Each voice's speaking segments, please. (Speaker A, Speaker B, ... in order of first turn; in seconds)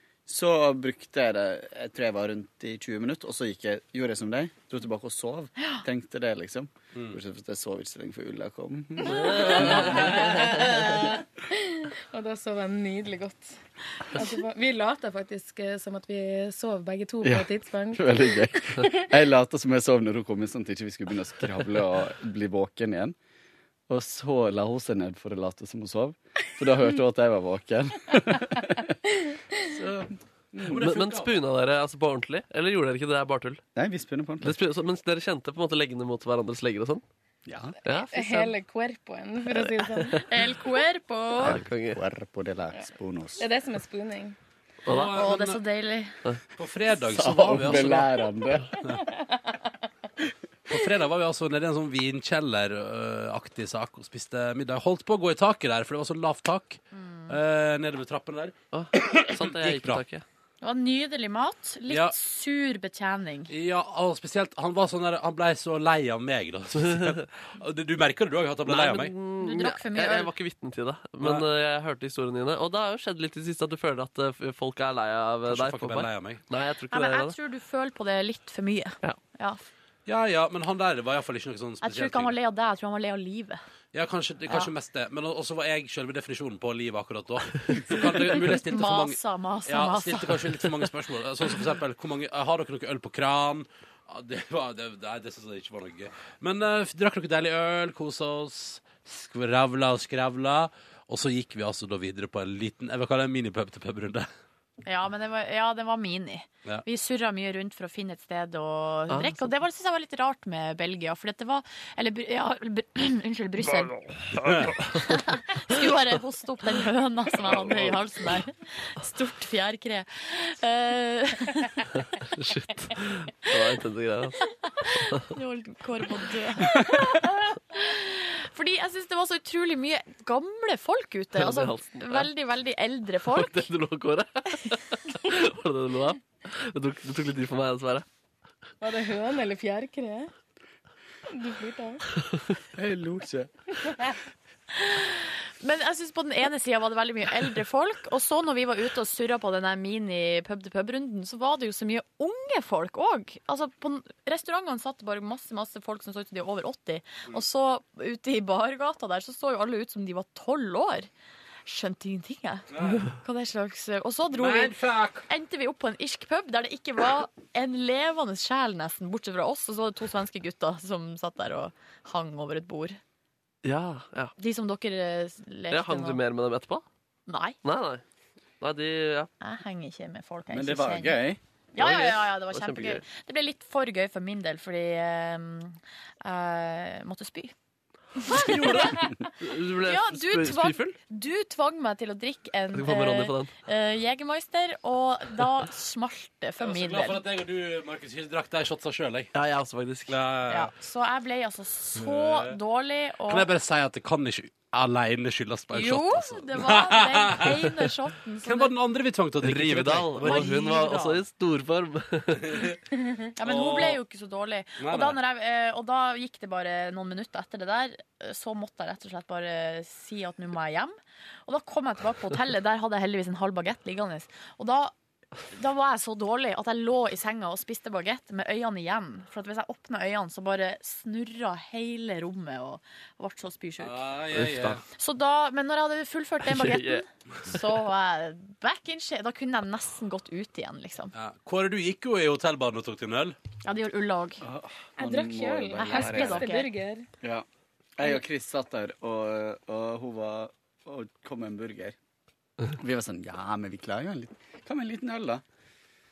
Speaker A: 0.3-10.3, 17.2-23.2, 23.9-28.9, 29.7-30.8, 33.8-34.6, 37.5-37.8, 41.4-43.5, 47.1-48.7, 142.8-143.5, 180.5-181.4, 244.4-246.5, 248.0-251.9, 252.8-255.4
Speaker B: 6.9-7.2, 9.4-11.2, 30.6-31.4, 44.9-45.6, 46.6-48.2, 50.7-60.0, 61.9-62.2, 63.5-69.1, 71.2-71.5, 75.5-76.4, 80.1-82.3, 83.9-104.3, 114.4-114.8, 162.7-163.0, 164.3-165.3, 196.6-199.3, 200.1-200.7, 202.0-202.6, 203.3-207.7, 208.4-211.2, 212.4-212.8, 213.4-214.0, 214.8-215.2, 233.8-234.8, 241.1-243.4
Speaker C: 9.1-9.8, 11.5-13.6, 14.1-19.1, 38.1-40.2, 43.4-44.4, 48.8-49.4, 138.8-140.3, 141.3-142.0, 245.0-247.1
Speaker D: 9.2-9.6, 30.8-33.6, 34.4-37.0, 37.8-38.6, 39.6-40.3, 41.4-42.0, 44.9-45.2, 58.7-60.2, 68.7-77.3, 109.1-109.4, 122.1-124.5, 131.4-132.3, 133.3-138.1, 173.6-174.3, 175.7-176.8, 177.6-178.0, 178.6-179.3, 181.8-183.0, 188.3-191.0, 192.7-193.5, 199.3-200.2, 209.4-212.7, 234.3-234.8, 236.5-237.0
Speaker E: 40.3-41.6, 45.1-46.1, 56.9-57.4, 60.6-63.5, 69.4-70.3, 76.9-79.6, 81.8-83.6, 87.9-90.7, 104.8-121.9, 124.8-133.7, 144.8-161.1, 161.7-164.7, 165.3-173.0, 174.4-176.2, 177.3-177.6, 179.4-181.2, 181.8-187.5, 188.2-189.0, 189.8-197.2, 200.5-203.5, 205.7-208.7, 213.4-224.9, 225.5-234.0, 235.0-241.1, 243.6-244.4, 245.8-246.7